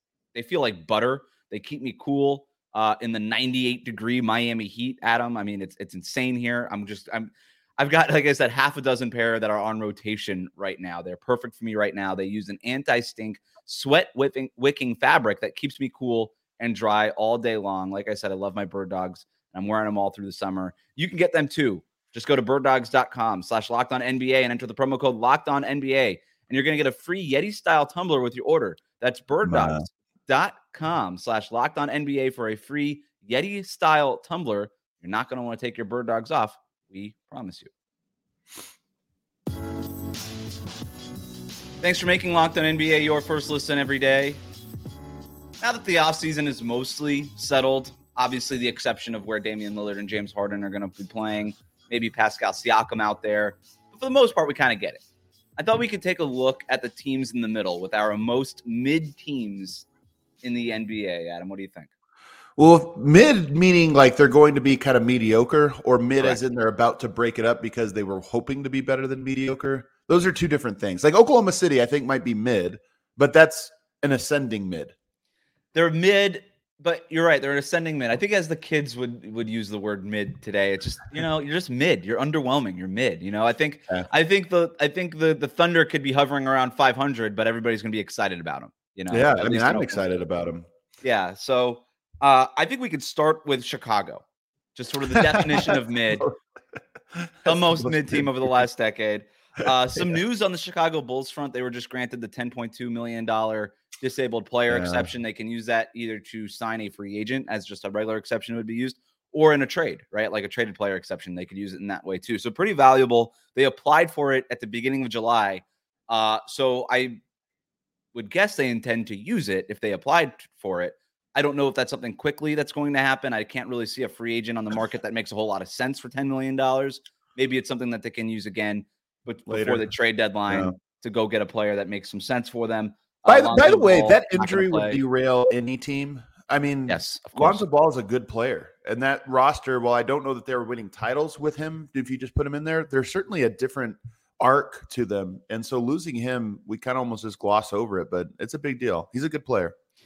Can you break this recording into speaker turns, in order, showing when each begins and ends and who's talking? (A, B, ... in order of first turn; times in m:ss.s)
0:00.3-0:37.7 A
0:29.4-0:29.8 B
0:41.8-0:44.4 A
0:45.6-0:55.0 A
0:55.6-0:59.9 A
1:00.4-1:01.9 A
1:02.6-1:14.9 B
1:15.7-1:30.0 A
1:29.1-1:30.7 B
1:31.0-1:34.2 A
1:34.8-1:36.3 A
1:35.1-1:36.4 B
1:37.1-1:38.3 B
1:37.4-1:57.2 A
1:44.7-1:45.1 B
1:58.1-2:15.0 A
2:09.5-2:09.8 B
2:10.5-2:10.8 B
2:13.3-2:29.7 B
2:16.9-2:17.6 A